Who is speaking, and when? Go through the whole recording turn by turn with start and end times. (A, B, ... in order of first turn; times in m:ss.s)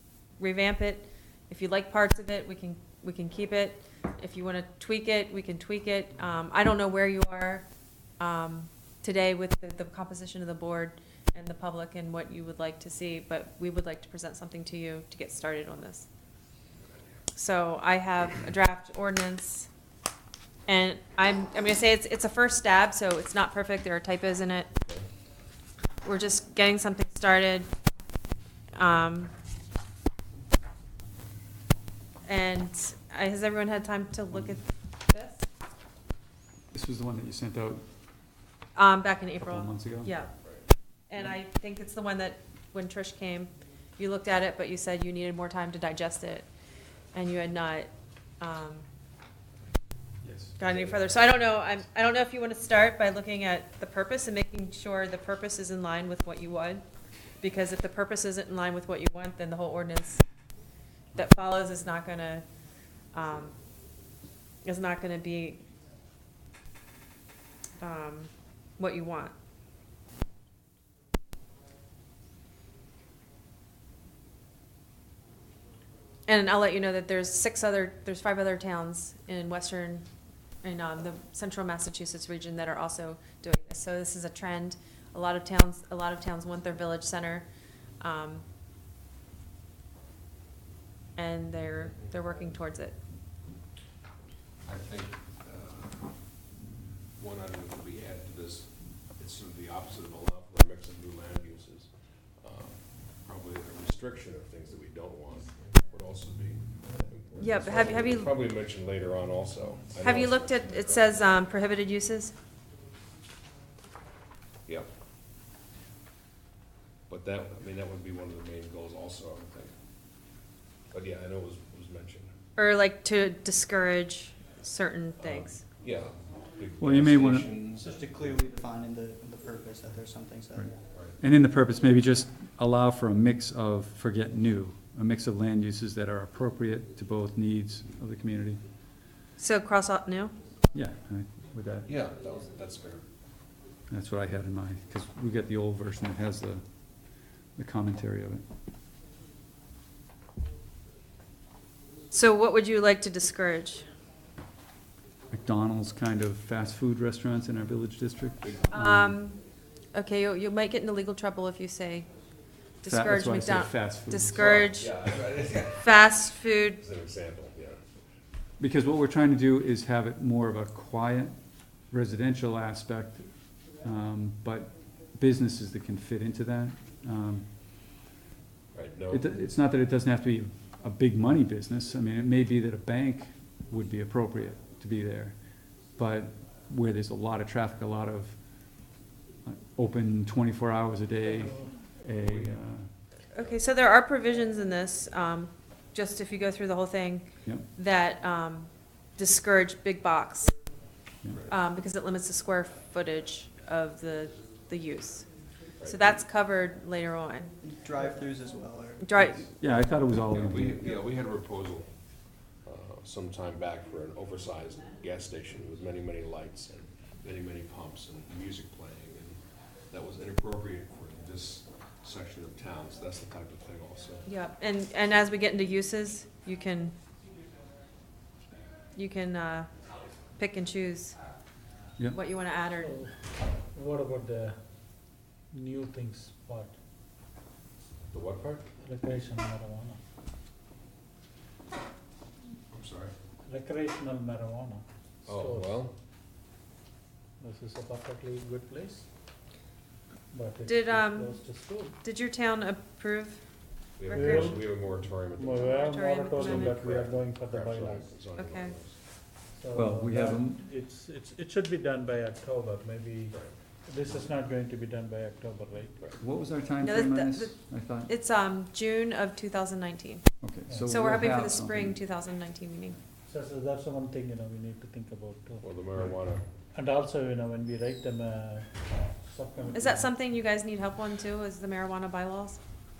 0:00.4-0:07.7 A
0:08.2-0:16.1 A
0:17.3-0:19.7 A
0:20.7-0:24.7 A
0:26.0-0:27.7 A
0:28.7-0:29.3 A
0:32.3-0:35.5 A
0:36.7-0:37.8 B
0:38.8-0:40.3 A
0:39.5-0:40.1 B
0:41.1-0:46.5 A
0:47.1-0:48.8 A
0:50.2-0:50.5 B
0:50.6-0:51.2 C
0:50.6-0:56.8 A
0:57.4-1:00.2 A
1:01.1-1:02.4 A
1:03.1-1:03.5 A
1:04.6-1:05.6 A
1:07.8-1:09.3 A
1:16.3-1:20.0 A
1:20.6-1:27.5 A
1:28.0-1:28.4 A
1:31.2-1:33.0 A
1:34.6-1:36.2 C
1:37.2-1:41.9 C
1:42.4-1:51.2 C
1:47.4-1:48.3 A
1:50.0-1:52.3 A
1:57.1-1:59.7 C
2:00.9-2:02.3 C
2:02.6-2:05.6 A
2:05.2-2:08.3 C
2:06.8-2:07.5 B
2:07.8-2:10.7 D
2:10.5-2:18.6 B
2:10.9-2:11.2 C
2:19.4-2:20.3 A
2:20.7-2:21.9 B
2:21.8-2:23.0 C
2:23.9-2:28.4 B
2:32.1-2:33.8 A
2:35.3-2:39.2 B
2:38.7-2:39.4 A
2:39.9-2:42.1 A
2:42.8-2:44.9 A
2:42.9-2:44.7 B
2:44.3-2:46.2 C
2:45.8-2:46.8 A
2:46.8-2:47.8 C
2:48.6-2:51.4 B
2:51.9-2:57.5 B
2:58.7-2:59.4 C
2:59.1-3:08.8 B
3:09.4-3:12.9 B
3:12.2-3:12.6 C
3:13.3-3:20.5 A
3:21.5-3:25.3 A
3:25.8-3:26.2 C
3:25.8-3:27.5 A
3:27.6-3:29.0 D
3:29.0-3:29.4 A
3:29.4-3:31.0 B
3:30.3-3:31.9 C
3:32.6-3:39.4 C
3:39.9-3:44.3 C
3:44.2-3:47.0 A
3:48.9-3:49.7 A
3:50.3-3:51.2 A
3:52.1-3:53.0 A
3:52.8-3:56.8 E
3:58.1-3:58.7 C
3:58.8-4:00.0 E
4:02.7-4:03.1 C
4:03.4-4:05.7 E
4:05.2-4:05.9 C
4:07.4-4:09.1 E
4:10.3-4:12.0 E
4:10.6-4:13.4 A
4:14.0-4:15.8 C
4:14.0-4:14.6 A
4:14.1-4:14.7 E
4:15.3-4:18.1 E
4:15.6-4:16.8 A
4:16.4-4:18.9 C
4:18.4-4:18.7 A
4:19.5-4:26.0 E
4:19.7-4:20.6 B
4:26.2-4:28.1 B
4:26.8-4:30.3 A
4:30.4-4:32.0 B
4:30.7-4:31.1 E
4:30.8-4:33.0 A
4:33.3-4:35.7 E
4:35.6-4:36.4 C
4:36.7-4:40.1 E
4:39.7-4:42.6 A